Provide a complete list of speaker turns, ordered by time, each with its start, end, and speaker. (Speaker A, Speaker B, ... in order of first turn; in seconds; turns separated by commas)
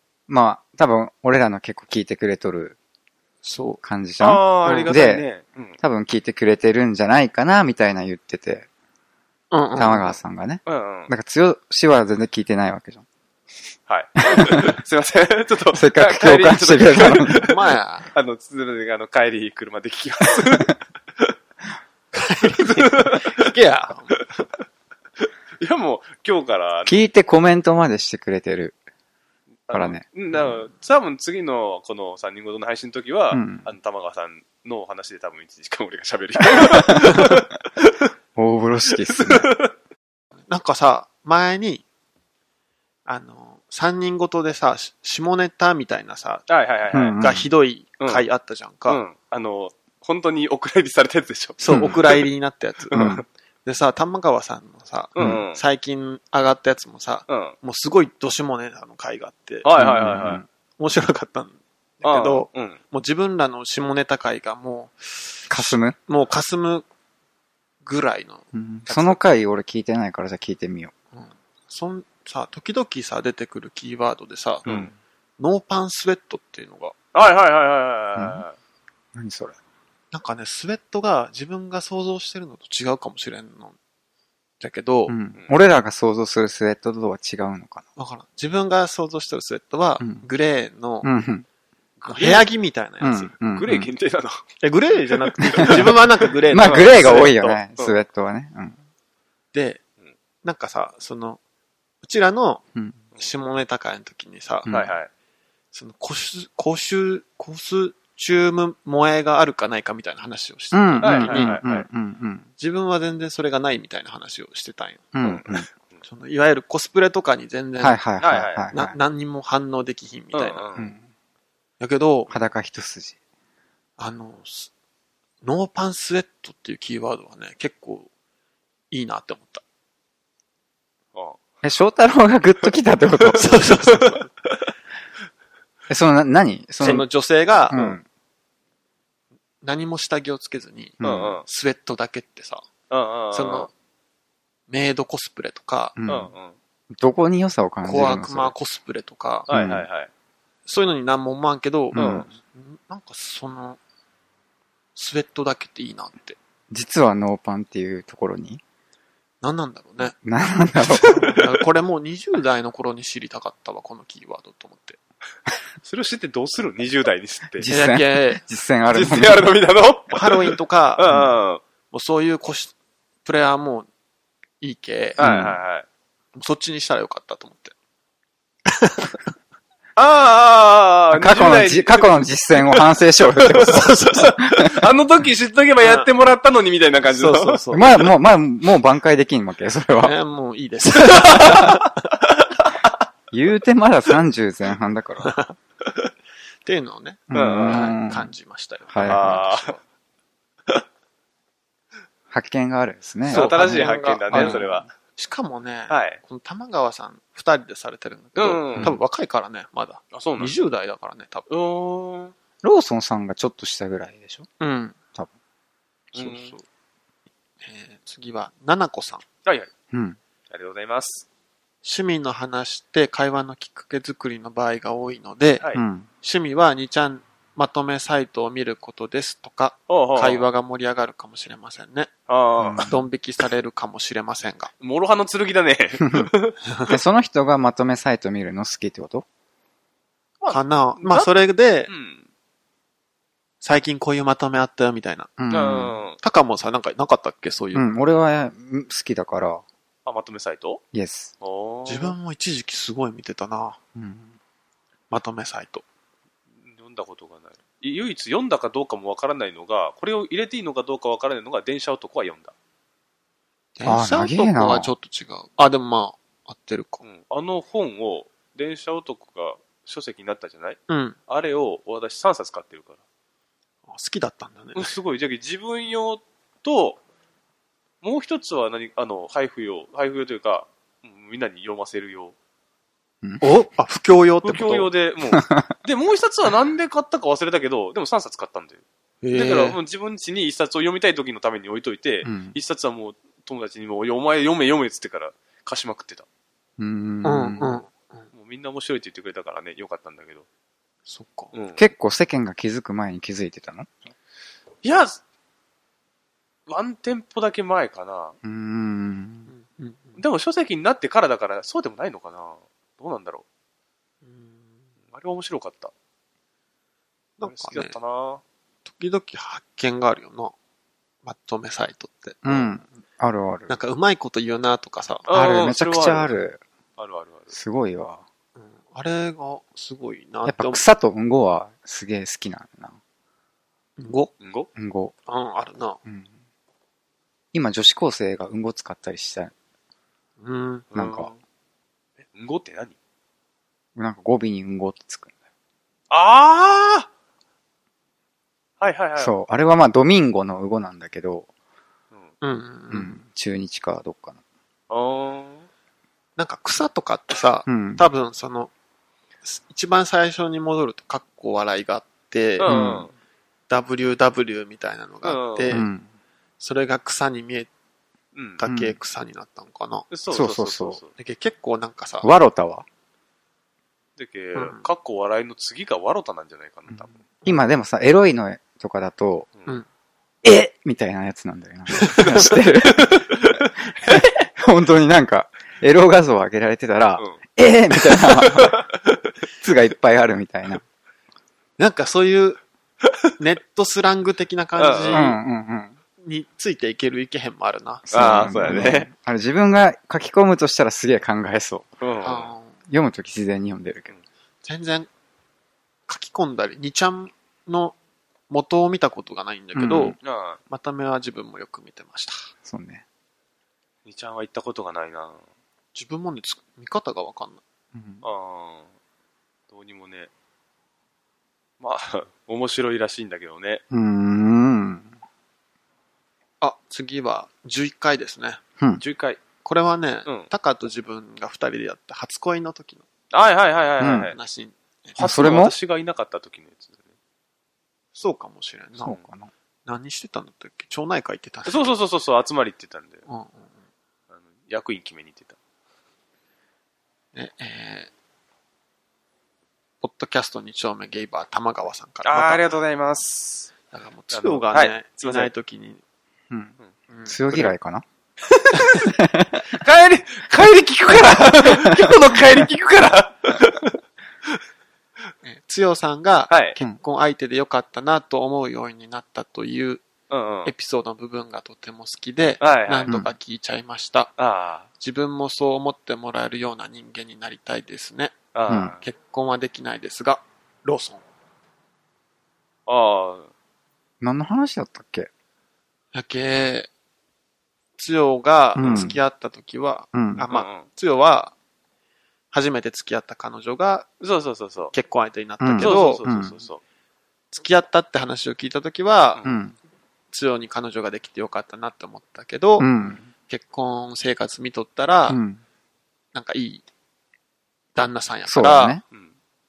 Speaker A: 0.3-2.8, Speaker B: 3.4-3.8, Speaker A: 3.8-5.2, Speaker C: 4.2-5.8, Speaker A: 5.8-8.7, Speaker B: 9.5-10.2, Speaker A: 9.8-13.0, Speaker C: 10.7-11.1, Speaker C: 13.9-17.6, Speaker A: 14.3-14.8, Speaker A: 15.7-17.4, Speaker B: 17.3-18.1, Speaker C: 18.1-21.3, Speaker B: 22.1-24.4, Speaker C: 22.5-23.5, Speaker C: 25.6-27.0, Speaker A: 26.9-28.8, Speaker C: 29.7-38.1, Speaker A: 29.7-30.0, Speaker A: 33.3-33.6, Speaker A: 36.5-37.4, Speaker A: 38.4-39.5, Speaker C: 38.9-39.7, Speaker B: 40.5-41.8, Speaker B: 43.1-46.4, Speaker C: 46.5-47.2, Speaker A: 46.9-47.4, Speaker B: 47.2-49.0, Speaker C: 48.9-52.2, Speaker B: 51.6-59.7, Speaker A: 51.7-52.0, Speaker C: 52.9-53.2, Speaker A: 52.9-53.2, Speaker C: 55.1-55.6, Speaker A: 55.2-55.4, Speaker C: 57.3-57.5, Speaker C: 59.6-60.4, Speaker A: 59.7-60.5, Speaker B: 60.8-66.8, Speaker C: 62.0-62.8, Speaker A: 65.5-66.0, Speaker B: 67.8-69.2, Speaker A: 68.5-70.9, Speaker B: 71.1-74.7, Speaker A: 74.7-74.9, Speaker C: 74.7-74.9, Speaker B: 75.4-76.9, Speaker C: 77.1-78.5, Speaker A: 78.2-78.4, Speaker A: 79.1-79.5, Speaker B: 80.1-83.8, Speaker B: 84.6-85.2, Speaker A: 85.1-87.8, Speaker B: 88.0-91.1, Speaker A: 91.0-91.5, Speaker C: 92.0-92.5, Speaker B: 92.0-93.3, Speaker A: 93.0-93.9, Speaker C: 93.5-94.5, Speaker B: 94.6-97.5, Speaker C: 95.1-98.0, Speaker A: 95.5-95.8, Speaker A: 96.5-98.8, Speaker B: 99.5-99.8, Speaker B: 100.4-101.4, Speaker B: 102.0-102.6, Speaker B: 103.1-104.7, Speaker A: 104.7-104.9, Speaker C: 104.7-105.1, Speaker B: 105.7-111.6, Speaker A: 110.7-112.5, Speaker C: 111.0-111.8, Speaker B: 112.6-115.0, Speaker A: 115.1-115.7, Speaker C: 115.2-116.0, Speaker B: 116.0-118.0, Speaker A: 117.8-119.0, Speaker C: 118.2-118.7, Speaker B: 118.7-120.6, Speaker C: 120.3-120.9, Speaker A: 120.8-121.0, Speaker B: 121.8-122.3, Speaker A: 122.3-123.2, Speaker B: 124.0-124.7, Speaker B: 125.4-128.1, Speaker B: 128.9-129.6, Speaker A: 131.6-133.6, Speaker B: 133.3-134.3, Speaker C: 133.9-134.7, Speaker A: 135.9-137.1, Speaker B: 136.8-138.0, Speaker A: 137.7-138.0, Speaker B: 139.6-142.7, Speaker A: 141.0-141.4, Speaker C: 141.0-141.4, Speaker C: 142.9-143.7, Speaker B: 143.3-143.7, Speaker B: 144.7-145.9, Speaker A: 146.0-146.3, Speaker C: 146.1-146.6, Speaker A: 146.9-148.5, Speaker B: 147.8-149.5, Speaker C: 149.5-150.1, Speaker A: 149.5-149.9, Speaker B: 150.7-153.8, Speaker A: 151.9-152.3, Speaker C: 151.9-152.3, Speaker B: 154.9-156.4, Speaker A: 156.7-158.6, Speaker B: 159.4-160.1, Speaker A: 160.1-161.2, Speaker C: 160.9-161.3, Speaker B: 161.0-165.0, Speaker C: 165.8-167.7, Speaker A: 167.6-169.5, Speaker B: 167.6-168.4, Speaker C: 168.9-171.6, Speaker B: 170.1-171.0, Speaker B: 171.9-172.7, Speaker B: 173.2-173.9, Speaker B: 174.6-175.2, Speaker C: 175.2-175.8, Speaker A: 175.2-175.6, Speaker B: 176.3-177.7, Speaker B: 178.7-179.2, Speaker C: 179.9-187.6, Speaker A: 181.1-184.8, Speaker B: 183.7-184.2, Speaker B: 185.8-186.1, Speaker B: 187.1-188.0, Speaker A: 187.7-190.2, Speaker B: 190.0-191.9, Speaker C: 191.2-191.9, Speaker C: 192.4-192.9, Speaker A: 193.3-195.3, Speaker B: 195.2-195.6, Speaker B: 196.6-199.8, Speaker A: 197.3-198.3, Speaker C: 197.3-197.9, Speaker A: 198.9-199.4, Speaker C: 199.0-199.8, Speaker A: 202.3-204.8, Speaker B: 203.3-211.4, Speaker C: 203.3-204.9, Speaker C: 205.9-206.2, Speaker C: 208.3-209.0, Speaker A: 208.7-209.0, Speaker C: 210.1-210.5, Speaker C: 211.5-212.3, Speaker A: 212.6-214.5, Speaker B: 214.6-215.0, Speaker C: 216.1-216.5, Speaker B: 216.1-216.6, Speaker B: 217.6-219.2, Speaker C: 219.4-219.7, Speaker A: 219.9-220.2, Speaker C: 220.5-221.2, Speaker B: 221.8-225.7, Speaker A: 225.7-226.1, Speaker B: 226.2-232.1, Speaker C: 229.9-230.4, Speaker C: 232.3-232.9, Speaker A: 232.6-232.9, Speaker B: 232.8-234.7, Speaker C: 234.8-236.6, Speaker A: 236.0-236.3, Speaker A: 236.9-239.2, Speaker C: 240.4-241.3, Speaker B: 240.5-241.9, Speaker C: 241.9-242.2, Speaker B: 243.6-245.3, Speaker A: 245.4-246.0, Speaker C: 245.5-246.2, Speaker B: 246.2-247.9, Speaker A: 247.7-249.6, Speaker C: 250.1-250.8, Speaker A: 250.9-251.3, Speaker C: 251.4-252.1, Speaker B: 251.8-253.8, Speaker A: 253.9-254.3, Speaker B: 255.1-255.8, Speaker C: 256.6-262.5, Speaker B: 263.8-267.0, Speaker A: 263.9-264.9, Speaker C: 267.0-273.0, Speaker B: 270.9-271.2, Speaker B: 273.9-274.9, Speaker C: 274.7-277.0, Speaker C: 278.0-282.3, Speaker A: 283.2-283.6, Speaker B: 283.4-284.9, Speaker C: 284.4-288.8, Speaker A: 285.3-285.7, Speaker B: 289.2-289.8, Speaker C: 289.3-296.2, Speaker A: 292.2-292.6, Speaker A: 296.8-297.8, Speaker B: 297.2-298.2, Speaker C: 298.3-300.4, Speaker B: 301.1-301.5, Speaker C: 301.5-301.8, Speaker A: 301.8-304.1, Speaker C: 304.8-305.2, Speaker C: 306.7-308.4, Speaker A: 308.4-309.5, Speaker B: 309.5-310.2, Speaker C: 310.2-313.4, Speaker B: 314.2-314.8, Speaker C: 315.1-315.9, Speaker B: 317.4-317.9, Speaker C: 317.4-318.4, Speaker B: 318.9-320.5, Speaker B: 321.2-322.7, Speaker A: 322.4-323.7, Speaker B: 323.7-325.3, Speaker C: 325.3-326.3, Speaker A: 325.3-326.6, Speaker C: 327.0-327.5, Speaker A: 327.5-328.2, Speaker B: 328.6-330.8, Speaker A: 330.4-333.0, Speaker B: 334.0-334.3, Speaker C: 334.4-334.7, Speaker A: 334.8-335.1, Speaker B: 335.3-336.0, Speaker A: 337.5-339.5, Speaker B: 340.4-340.9, Speaker C: 340.9-341.4, Speaker A: 340.9-341.3, Speaker C: 342.2-342.9, Speaker A: 343.9-345.3, Speaker C: 346.1-347.1, Speaker C: 348.8-349.3, Speaker A: 349.2-351.5, Speaker B: 352.4-353.2, Speaker A: 352.9-354.4, Speaker C: 354.9-355.7, Speaker B: 356.4-358.7, Speaker A: 357.6-358.1, Speaker B: 359.4-362.8, Speaker C: 362.6-363.1, Speaker A: 362.6-363.1, Speaker B: 363.7-365.9, Speaker C: 365.2-365.7, Speaker A: 365.7-366.1, Speaker B: 366.6-367.7, Speaker B: 368.6-370.1, Speaker A: 368.6-368.9, Speaker C: 370.1-371.1, Speaker A: 370.3-371.0, Speaker B: 371.2-372.3, Speaker A: 372.2-372.8, Speaker C: 374.2-377.1, Speaker B: 374.5-374.9, Speaker A: 377.4-379.5, Speaker A: 380.4-388.8, Speaker B: 381.9-382.5, Speaker C: 382.8-384.2, Speaker C: 388.2-389.2, Speaker A: 389.6-390.8, Speaker B: 391.8-392.6, Speaker B: 393.4-395.4, Speaker C: 394.8-395.4, Speaker A: 395.1-395.9, Speaker B: 396.2-398.9, Speaker A: 398.1-401.9, Speaker C: 398.1-399.1, Speaker C: 402.0-402.5, Speaker B: 402.2-402.7, Speaker A: 402.9-404.1, Speaker B: 404.6-405.1, Speaker B: 406.1-407.9, Speaker B: 408.5-410.2, Speaker A: 409.7-410.1, Speaker C: 410.2-410.6, Speaker B: 410.7-412.5, Speaker A: 412.6-413.0, Speaker C: 414.1-415.4, Speaker B: 415.9-417.6, Speaker A: 417.9-418.2, Speaker C: 418.2-418.9, Speaker C: 419.7-420.3, Speaker C: 421.8-423.8, Speaker A: 423.9-425.1, Speaker B: 426.6-428.6, Speaker C: 429.0-429.4, Speaker B: 429.6-433.0, Speaker C: 433.3-434.4, Speaker A: 434.0-434.3, Speaker B: 434.3-435.2, Speaker C: 435.1-437.1, Speaker A: 435.2-435.7, Speaker B: 438.1-439.2, Speaker A: 439.0-439.5, Speaker B: 439.9-441.9, Speaker C: 441.6-443.2, Speaker B: 443.3-443.7, Speaker C: 444.3-445.6, Speaker B: 447.3-448.1, Speaker B: 450.0-452.6, Speaker C: 452.2-453.7, Speaker B: 453.9-456.0, Speaker C: 454.3-455.5, Speaker B: 457.1-457.4, Speaker A: 457.3-458.0, Speaker C: 458.5-459.1, Speaker A: 459.1-459.7, Speaker C: 459.7-464.0, Speaker A: 461.1-462.6, Speaker B: 465.4-470.0, Speaker C: 466.5-466.8, Speaker C: 470.3-470.7, Speaker B: 470.6-474.3, Speaker C: 472.6-473.1, Speaker A: 473.1-473.3, Speaker C: 474.4-474.9, Speaker B: 475.0-478.4, Speaker C: 478.5-479.0, Speaker A: 478.7-478.9, Speaker B: 479.0-481.2, Speaker C: 482.9-483.5, Speaker A: 484.2-485.3, Speaker B: 486.1-486.9, Speaker B: 488.0-491.5, Speaker A: 488.8-489.2, Speaker A: 490.1-490.4, Speaker C: 490.5-490.9, Speaker B: 492.5-494.1, Speaker C: 494.2-494.9, Speaker B: 494.9-496.2, Speaker A: 495.6-496.6, Speaker C: 495.8-496.8, Speaker B: 497.5-499.4, Speaker A: 499.4-499.7, Speaker B: 500.3-502.9, Speaker A: 502.8-503.3, Speaker B: 503.5-505.4, Speaker A: 505.3-505.6, Speaker B: 506.3-506.8, Speaker B: 507.9-509.0, Speaker A: 508.5-509.0